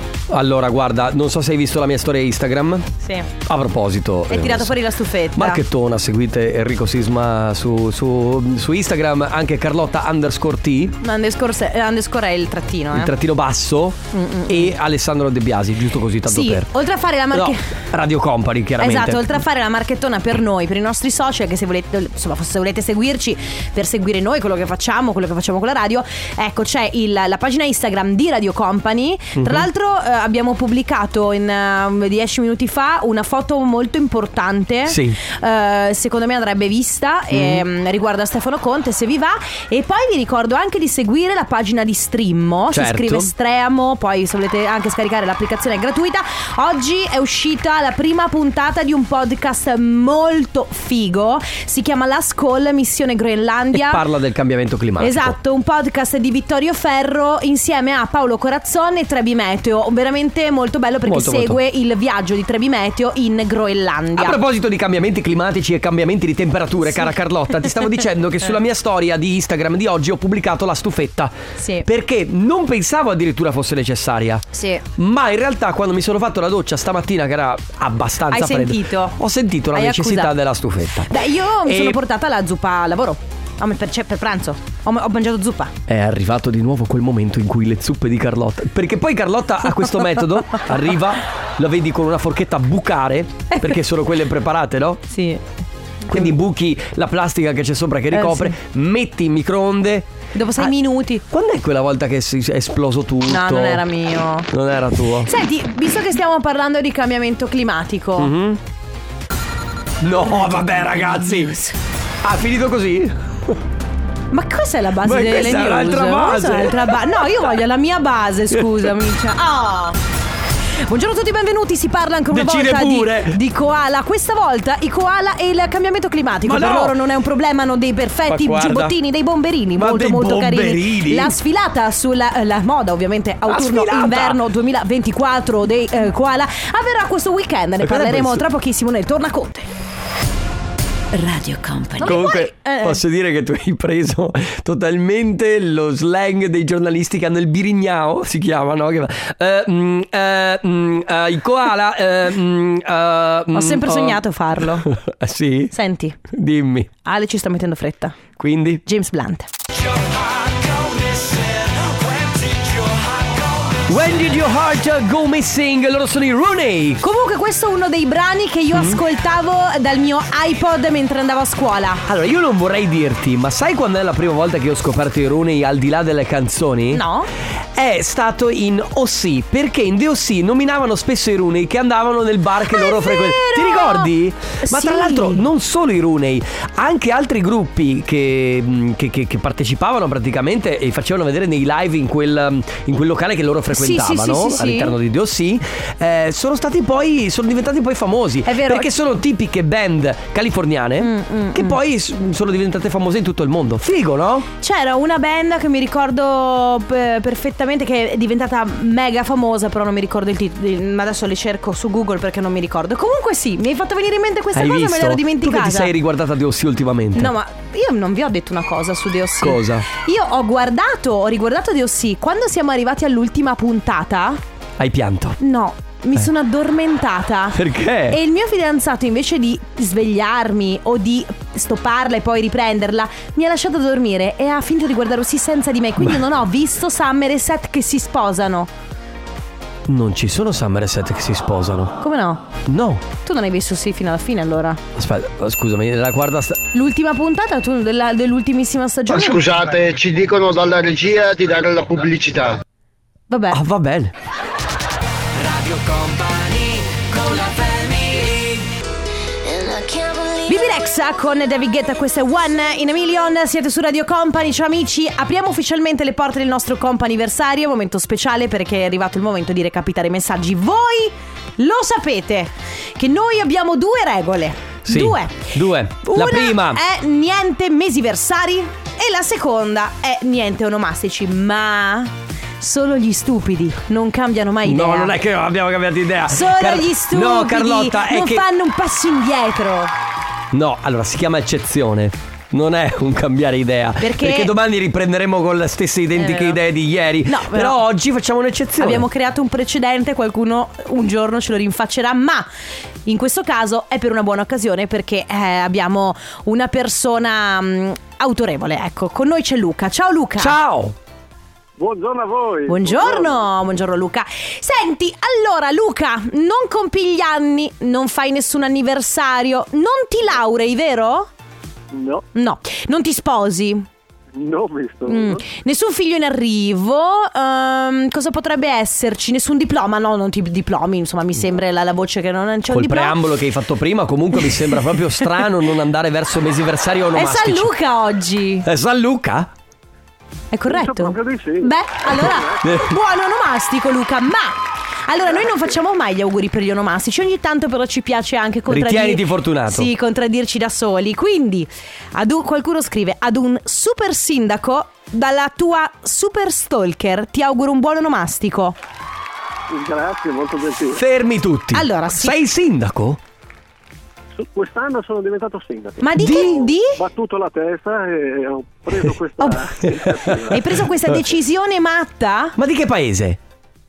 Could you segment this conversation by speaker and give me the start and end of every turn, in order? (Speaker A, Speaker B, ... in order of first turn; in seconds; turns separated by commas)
Speaker A: 0.3-2.9, Speaker B: 3.0-3.3, Speaker A: 3.4-4.8, Speaker B: 4.3-5.6, Speaker A: 5.3-10.9, Speaker B: 11.0-13.1, Speaker A: 12.9-16.7, Speaker B: 14.1-14.8, Speaker B: 16.2-17.7, Speaker A: 17.3-19.4, Speaker B: 18.8-54.0, Speaker A: 29.4-29.7, Speaker A: 34.9-35.2, Speaker A: 37.3-37.6, Speaker A: 42.7-43.3, Speaker A: 53.7-55.4, Speaker B: 55.0-64.4, Speaker A: 61.0-61.6, Speaker A: 64.2-82.0, Speaker B: 71.6-71.8, Speaker B: 74.5-74.8, Speaker B: 78.3-79.2, Speaker B: 79.7-80.3, Speaker B: 81.1-85.7, Speaker A: 85.9-95.0, Speaker B: 95.1-95.4, Speaker B: 96.1-96.3, Speaker A: 96.1-100.7, Speaker B: 98.1-98.6, Speaker B: 100.3-101.2, Speaker A: 101.2-103.8, Speaker B: 103.3-104.5, Speaker A: 104.5-105.3, Speaker B: 105.2-108.3, Speaker A: 108.2-108.6, Speaker A: 110.0-111.6, Speaker B: 110.8-111.7, Speaker A: 112.2-113.6, Speaker B: 114.3-120.0, Speaker A: 115.0-117.2, Speaker B: 120.8-139.7, Speaker A: 122.3-123.4, Speaker A: 126.4-127.0, Speaker A: 128.3-128.9, Speaker A: 129.8-131.3, Speaker A: 133.4-134.4, Speaker A: 137.8-138.5, Speaker C: 141.2-142.0, Speaker B: 141.9-143.0, Speaker A: 142.0-155.7, Speaker B: 153.5-154.9, Speaker B: 155.7-156.2, Speaker A: 156.3-156.9, Speaker B: 157.0-158.2, Speaker A: 158.4-158.8, Speaker B: 158.8-159.5, Speaker A: 159.7-167.0, Speaker B: 167.0-172.0, Speaker A: 168.7-169.0, Speaker A: 172.1-177.0, Speaker B: 176.9-177.3, Speaker A: 177.7-204.5, Speaker B: 182.7-185.4, Speaker B: 193.7-194.9, Speaker B: 198.4-198.9, Speaker B: 201.0-201.8, Speaker B: 204.6-215.9, Speaker A: 214.5-217.3, Speaker B: 217.1-224.4, Speaker A: 219.4-219.9, Speaker A: 224.8-225.4, Speaker B: 225.4-238.7, Speaker A: 227.5-228.2, Speaker A: 239.9-241.9, Speaker B: 242.0-242.5, Speaker A: 242.7-243.0, Speaker B: 243.2-244.8, Speaker A: 244.9-246.6, Speaker B: 246.7-249.4, Speaker D: 249.1-252.6, Speaker B: 253.3-253.6, Speaker A: 253.5-254.1, Speaker A: 255.4-258.7, Speaker C: 259.4-260.8, Speaker B: 260.5-285.1, Speaker A: 274.8-276.8, Speaker A: 284.6-288.4, Speaker B: 286.3-289.9, Speaker A: 290.5-299.1, Speaker B: 294.0-294.5, Speaker B: 296.1-296.6, Speaker B: 297.2-297.8, Speaker B: 298.8-302.5, Speaker B: 303.1-310.6, Speaker A: 310.4-310.9, Speaker E: 311.8-313.4, Speaker B: 312.7-321.3, Speaker E: 321.9-322.2, Speaker B: 322.3-323.9, Speaker E: 324.3-325.4, Speaker B: 325.1-333.2, Speaker A: 332.7-337.7, Speaker B: 334.4-334.8, Speaker B: 337.1-338.6, Speaker A: 338.6-339.5, Speaker B: 340.5-358.8, Speaker E: 340.7-342.6, Speaker A: 342.6-342.9, Speaker A: 348.7-349.9, Speaker E: 359.7-361.0, Speaker A: 360.8-363.2, Speaker B: 361.7-362.4, Speaker E: 364.4-370.8, Speaker B: 366.0-367.0, Speaker A: 366.2-366.6, Speaker A: 370.1-370.4, Speaker B: 370.5-372.6, Speaker A: 372.6-373.4